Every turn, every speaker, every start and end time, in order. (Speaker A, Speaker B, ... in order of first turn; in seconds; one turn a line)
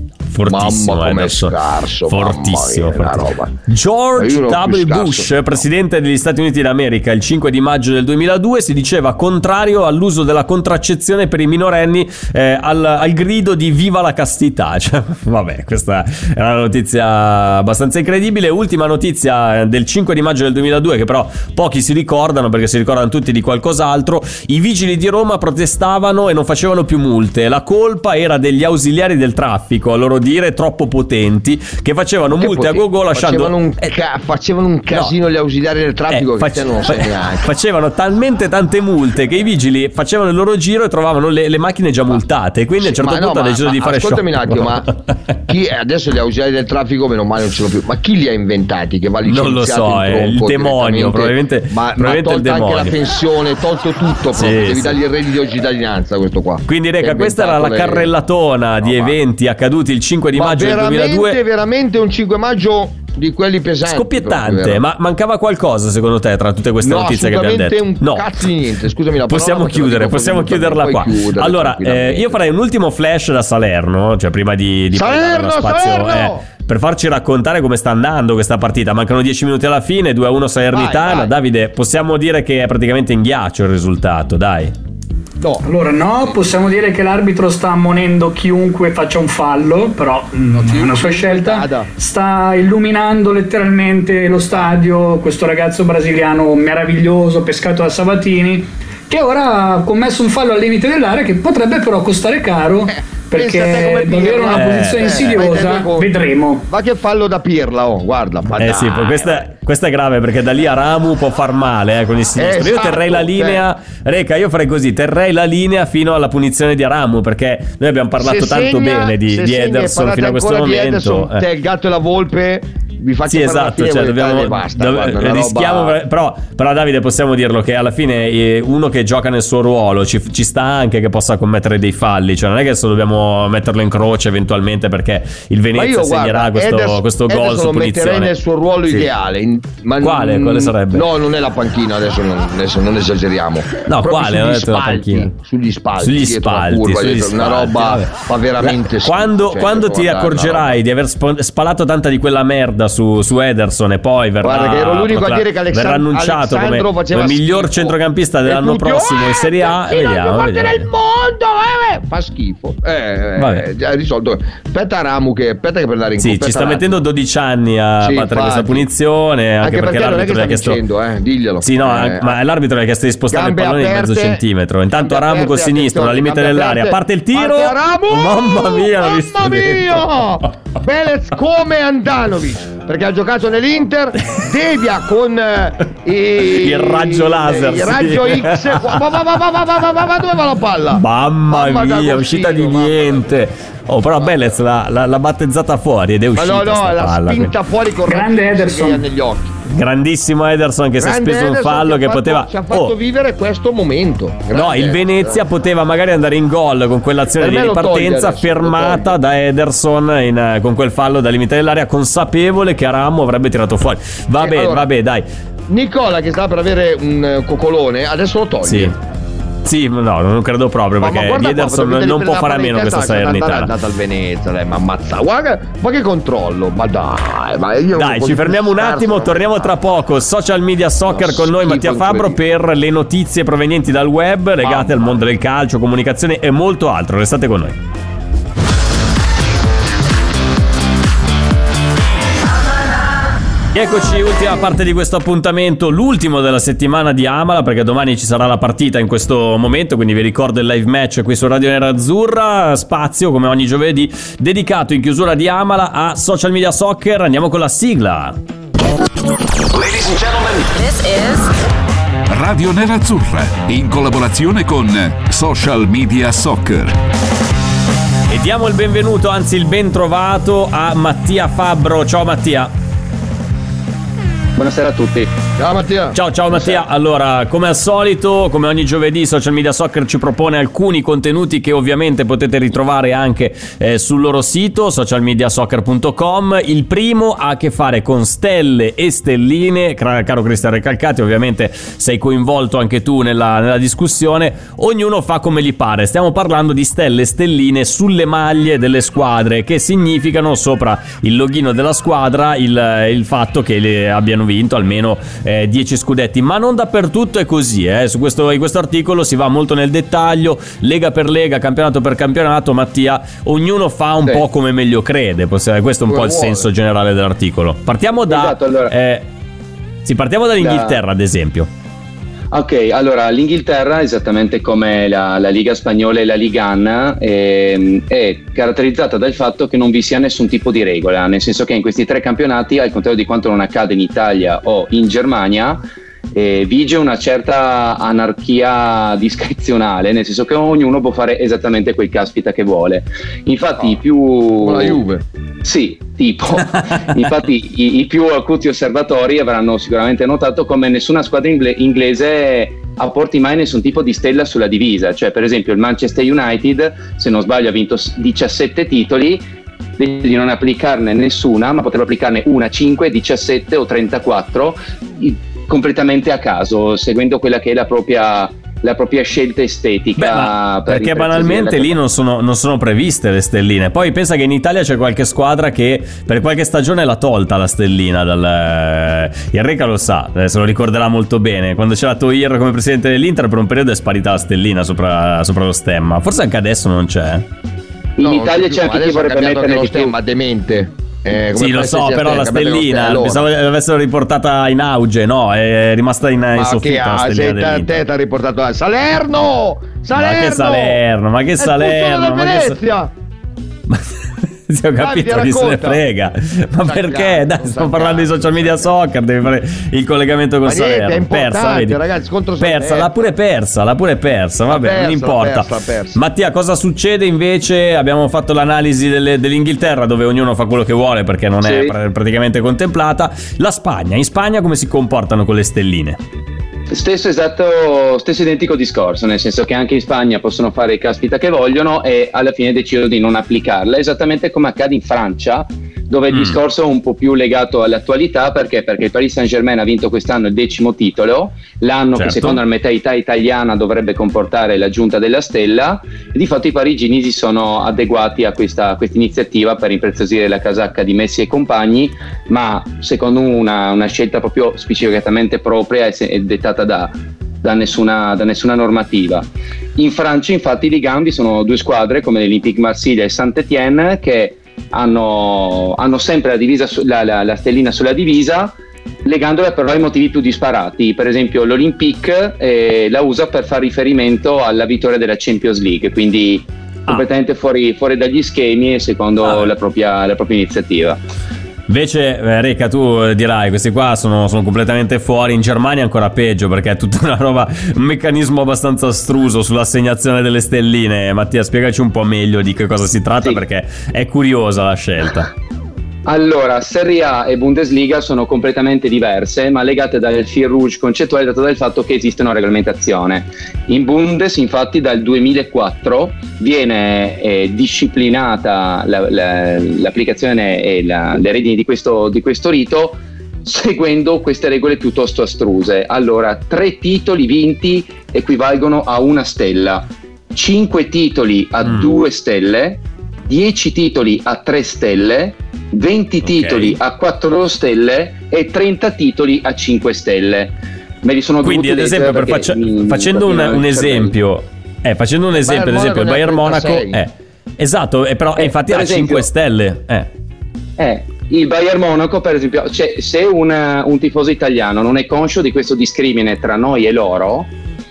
Speaker A: 0.3-33.5
Speaker B: 0.5-3.5
Speaker B: 4.2-5.5
Speaker B: 32.3-37.5
Speaker A: 36.1-45.4
Speaker B: 42.8-44.9
Speaker B: 45.5-58.1
Speaker A: 49.2-52.9
Speaker A: 54.4-55.0
Speaker A: 56.7-61.4
Speaker B: 58.8-59.2
Speaker B: 60.3-64.8
Speaker A: 63.8-68.3
Speaker B: 66.8-72.4
Speaker A: 69.3-84.7
Speaker B: 74.9-76.5
Speaker B: 80.7-81.3
Speaker B: 85.4-85.7
Speaker C: 85.6-106.7
Speaker B: 90.5-91.9
Speaker B: 103.3-109.5
Speaker A: 104.5-105.3
Speaker A: 108.6-121.5
Speaker B: 112.4-113.7
Speaker B: 118.2-126.0
Speaker A: 123.3-138.3
Speaker B: 135.7-150.8
Speaker A: 140.0-141.1
Speaker A: 143.9-145.3
Speaker A: 146.0-160.9
Speaker B: 154.4-167.0
Speaker A: 163.4-163.7
Speaker A: 166.2-170.8
Speaker B: 168.0-168.9
Speaker B: 169.6-172.4
Speaker A: 171.6-180.2
Speaker B: 173.3-174.4
Speaker B: 174.9-193.3
Speaker A: 186.5-188.9
Speaker A: 190.9-197.5
Speaker B: 194.2-194.6
Speaker B: 196.3-199.6
Speaker C: 198.1-199.1
Speaker A: 199.7-202.9
Speaker B: 201.0-205.4
Speaker A: 204.5-215.3
Speaker B: 207.4-209.2
Speaker B: 214.4-214.9
Speaker B: 215.7-218.9
Speaker A: 218.7-218.9
Speaker A: 219.7-223.7
Speaker B: 221.0-229.8
Speaker A: 228.0-237.8
Speaker B: 231.1-232.4
Speaker B: 234.6-235.1
Speaker A: 243.7-258.4
Speaker D: 259.7-260.7
Speaker D: 262.3-267.0
Speaker A: 268.3-272.7
Speaker E: 274.6-275.3
Speaker B: 275.6-276.8
Speaker A: 276.1-319.3
Speaker B: 316.1-316.7
Speaker E: 318.2-318.9
Speaker A: 320.1-321.7
Speaker E: 320.6-321.0
Speaker E: 322.5-345.0
Speaker B: 344.6-345.2
Speaker E: 345.6-359.4
Speaker E: 360.0-372.0
Speaker A: 370.2-387.5
Speaker E: 388.2-390.1
Speaker B: 388.2-393.5
Speaker A: 391.6-398.0
Speaker B: 396.6-401.0
Speaker A: 400.1-402.8
Speaker B: 401.6-403.1
Speaker A: 404.7-412.0
Speaker B: 405.0-406.0
Speaker B: 406.8-408.9
Speaker B: 410.6-413.3
Speaker A: 412.6-426.2
Speaker B: 414.7-416.2
Speaker E: 421.6-422.0
Speaker E: 426.9-481.2
Speaker A: 436.3-436.6
Speaker A: 442.1-442.6
Speaker A: 479.4-479.7
Speaker A: 481.9-495.5
Speaker E: 496.2-534.4
Speaker A: 521.8-522.2
Speaker A: 526.4-527.0
Speaker A: 531.6-540.3
Speaker B: 535.5-537.2
Speaker E: 538.6-539.5
Speaker E: 541.0-547.7